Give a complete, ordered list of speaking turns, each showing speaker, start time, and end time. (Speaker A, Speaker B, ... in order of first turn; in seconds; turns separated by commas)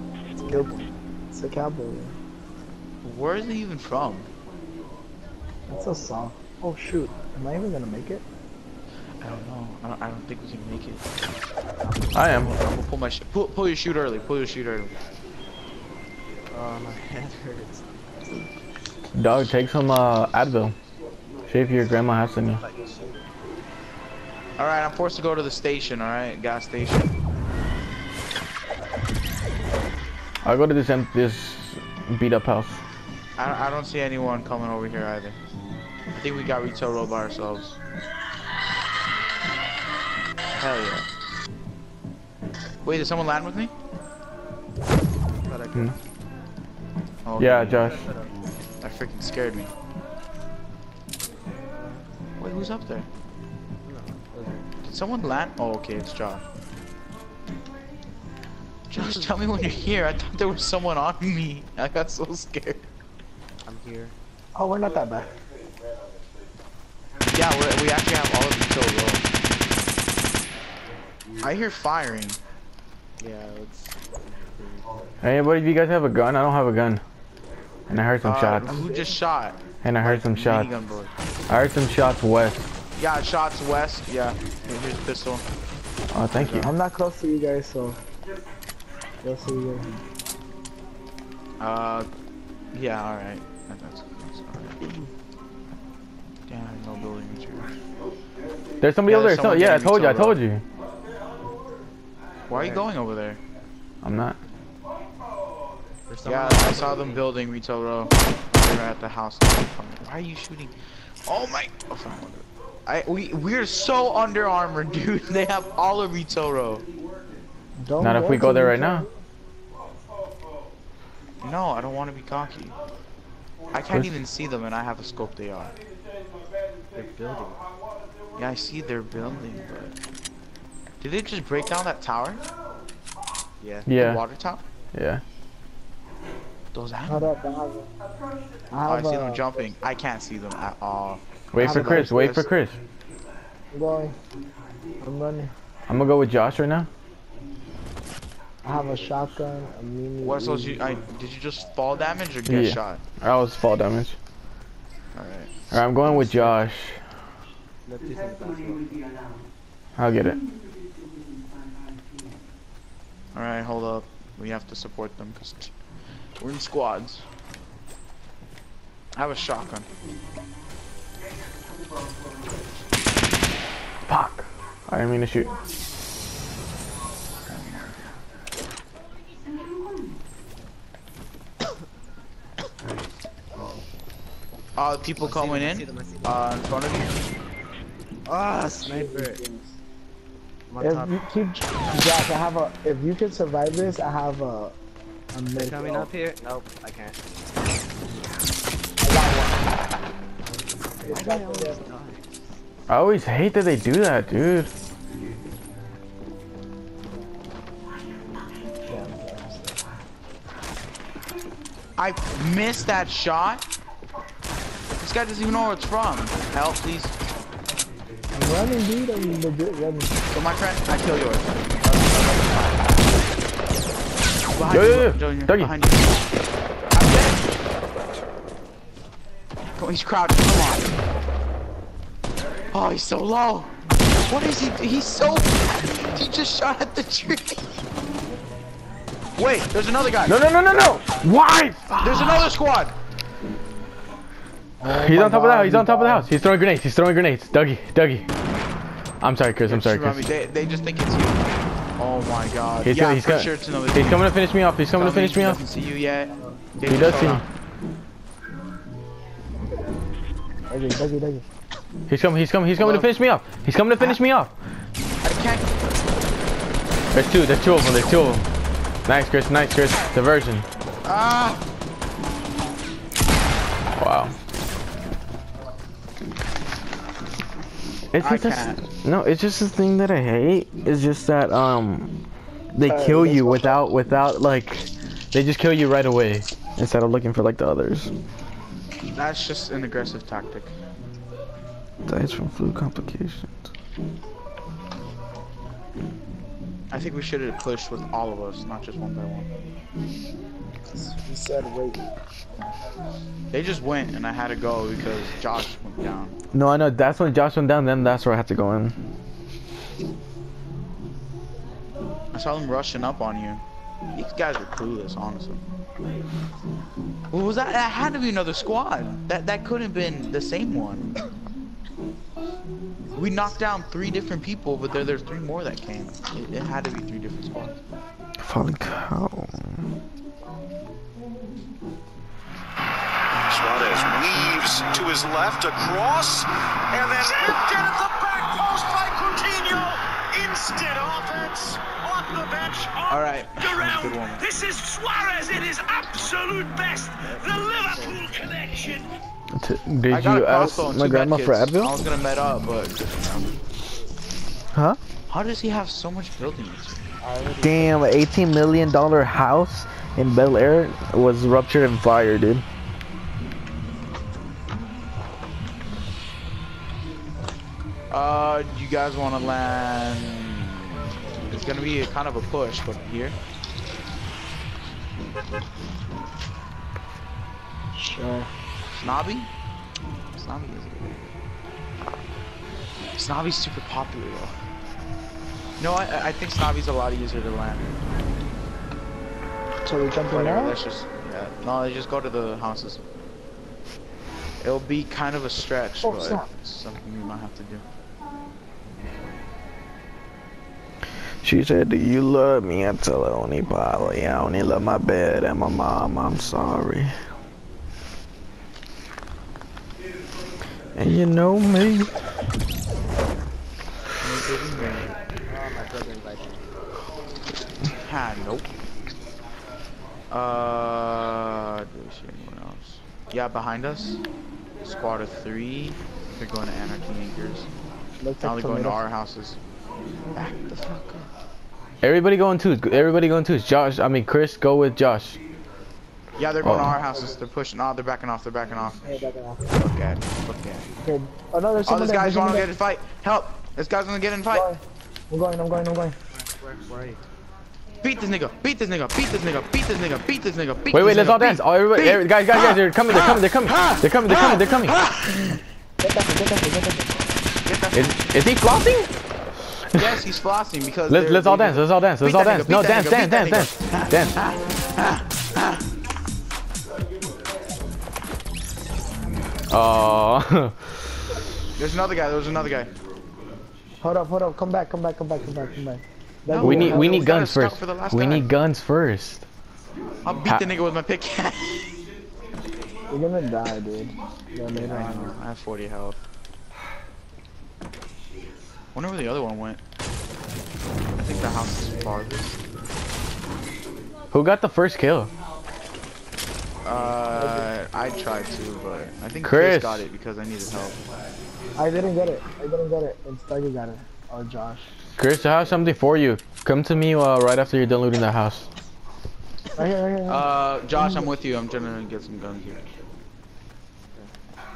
Speaker A: 0.4-0.9, Speaker B: 0.5-0.8, Speaker B: 1.3-2.2, Speaker C: 3.0-4.3, Speaker B: 5.7-8.2, Speaker C: 9.2-11.1, Speaker A: 11.8-12.5, Speaker D: 12.1-12.5, Speaker C: 12.3-14.9, Speaker A: 16.5-18.5, Speaker D: 19.1-20.8, Speaker D: 21.5-22.6, Speaker A: 22.4-23.3, Speaker C: 24.6-27.1, Speaker D: 30.4-32.8, Speaker C: 33.4-35.4, Speaker C: 36.1-37.8, Speaker C: 40.6-41.1, Speaker C: 42.8-43.7, Speaker A: 45.3-46.0, Speaker C: 47.2-47.8, Speaker D: 47.4-48.0, Speaker A: 47.7-48.4, Speaker C: 48.8-49.7, Speaker C: 52.4-53.1, Speaker A: 53.8-54.7, Speaker C: 54.8-56.4, Speaker C: 58.9-62.9, Speaker A: 63.6-64.2, Speaker B: 64.5-65.3, Speaker C: 67.3-69.2, Speaker C: 71.4-72.4, Speaker A: 73.2-74.9, Speaker D: 75.2-77.0, Speaker D: 77.9-78.8, Speaker C: 78.2-81.1, Speaker B: 78.7-79.1, Speaker D: 79.8-80.7, Speaker D: 81.5-82.6, Speaker C: 83.0-85.5, Speaker D: 86.1-86.7, Speaker C: 86.3-86.7, Speaker B: 86.6-88.0, Speaker B: 89.2-90.0, Speaker C: 91.6-92.1, Speaker C: 92.7-94.8, Speaker C: 96.5-97.7, Speaker D: 98.8-100.6, Speaker C: 99.1-100.4, Speaker A: 102.5-102.9, Speaker C: 102.5-103.4, Speaker D: 104.0-104.4, Speaker A: 106.1-107.2, Speaker C: 106.2-110.7, Speaker C: 111.3-116.9, Speaker B: 117.8-119.2, Speaker D: 118.0-119.1, Speaker C: 121.4-122.8, Speaker C: 123.7-125.8, Speaker A: 126.9-127.6, Speaker C: 128.4-129.9, Speaker C: 131.0-132.4, Speaker A: 133.6-133.9, Speaker D: 133.9-134.2, Speaker C: 133.9-134.6, Speaker D: 134.9-135.2, Speaker C: 136.7-137.3, Speaker B: 137.1-137.9, Speaker B: 138.7-139.4, Speaker C: 138.9-142.5, Speaker D: 141.5-142.8, Speaker B: 141.6-142.4, Speaker B: 143.7-144.2, Speaker B: 145.0-145.5, Speaker D: 145.9-146.9, Speaker B: 148.6-150.9, Speaker C: 150.2-153.0, Speaker D: 152.5-154.2, Speaker C: 155.2-155.5, Speaker D: 155.7-157.0, Speaker A: 157.8-159.1, Speaker D: 160.0-160.4, Speaker C: 163.3-165.7, Speaker C: 166.4-167.2, Speaker C: 169.2-169.9, Speaker D: 174.1-175.6, Speaker C: 184.8-187.1, Speaker A: 185.2-186.4, Speaker A: 188.3-189.4, Speaker B: 188.7-189.8, Speaker A: 190.7-191.1, Speaker B: 190.8-194.8, Speaker B: 195.3-196.1, Speaker A: 195.6-198.2, Speaker B: 199.0-199.7, Speaker A: 201.0-202.5, Speaker B: 201.0-201.8, Speaker D: 202.9-204.7, Speaker B: 208.9-209.8, Speaker C: 212.0-213.6, Speaker C: 215.0-217.1, Speaker B: 218.3-220.1, Speaker C: 220.3-222.9, Speaker C: 224.5-226.2, Speaker D: 224.7-225.7, Speaker C: 226.9-227.4, Speaker C: 229.8-230.9, Speaker C: 232.7-233.7, Speaker C: 234.3-237.6, Speaker C: 239.4-241.0, Speaker D: 240.3-242.5, Speaker C: 242.0-242.9, Speaker B: 244.8-246.3, Speaker D: 244.9-248.3, Speaker D: 249.2-250.2, Speaker C: 249.7-251.4, Speaker C: 252.0-254.3, Speaker D: 252.8-255.6, Speaker C: 254.9-257.4, Speaker D: 256.9-257.4, Speaker B: 260.7-261.4, Speaker D: 262.1-264.5, Speaker C: 262.8-263.1, Speaker C: 265.2-265.7, Speaker D: 267.1-268.4, Speaker D: 269.1-270.7, Speaker C: 271.1-271.6, Speaker D: 274.0-274.3, Speaker D: 278.1-282.1, Speaker C: 278.2-278.8, Speaker D: 282.7-288.1, Speaker B: 282.9-283.8, Speaker C: 289.1-290.7, Speaker D: 292.1-293.5, Speaker C: 296.9-299.5, Speaker B: 300.9-302.0, Speaker C: 303.5-306.4, Speaker D: 306.5-308.9, Speaker C: 312.3-313.6, Speaker C: 314.2-315.6, Speaker C: 317.3-321.1, Speaker C: 323.1-327.7, Speaker D: 328.4-329.9, Speaker E: 333.5-349.1, Speaker C: 343.1-344.5, Speaker A: 347.2-348.2, Speaker D: 349.6-351.9, Speaker C: 350.1-353.5, Speaker D: 354.7-355.0, Speaker C: 355.3-357.1, Speaker A: 357.2-358.1, Speaker D: 357.6-362.6, Speaker C: 368.1-373.4, Speaker B: 377.9-378.5, Speaker C: 379.0-379.5, Speaker C: 380.4-381.3, Speaker C: 383.2-384.6, Speaker C: 385.8-387.9, Speaker B: 389.9-390.8, Speaker C: 390.3-393.0, Speaker C: 394.6-397.9, Speaker B: 396.0-396.4, Speaker D: 401.4-407.1, Speaker D: 411.0-412.1, Speaker C: 414.2-415.1, Speaker A: 415.5-416.7, Speaker C: 418.0-418.7, Speaker C: 420.3-424.2, Speaker C: 424.8-427.7, Speaker B: 428.2-429.0, Speaker C: 428.4-429.6, Speaker C: 430.3-431.3, Speaker D: 432.0-435.4, Speaker C: 436.4-439.1, Speaker D: 436.6-437.0, Speaker B: 439.0-439.7, Speaker C: 439.7-440.9, Speaker B: 441.0-442.6, Speaker C: 441.9-444.7, Speaker B: 444.5-446.2, Speaker A: 446.3-447.2, Speaker C: 448.0-455.6, Speaker D: 450.9-455.0, Speaker B: 456.0-457.1, Speaker C: 457.6-458.2, Speaker D: 457.9-459.1, Speaker C: 459.9-465.8, Speaker D: 461.1-464.4, Speaker D: 469.7-471.0, Speaker C: 471.8-472.9, Speaker B: 474.0-477.3, Speaker C: 476.5-478.5, Speaker D: 476.6-479.4, Speaker C: 480.2-481.9, Speaker B: 483.1-485.4, Speaker C: 484.7-486.2, Speaker C: 488.9-489.8, Speaker C: 491.2-492.6, Speaker D: 494.3-495.3, Speaker C: 496.8-501.0, Speaker D: 499.4-500.1, Speaker B: 501.8-504.9, Speaker D: 505.2-508.7, Speaker B: 509.8-510.5, Speaker C: 510.3-512.8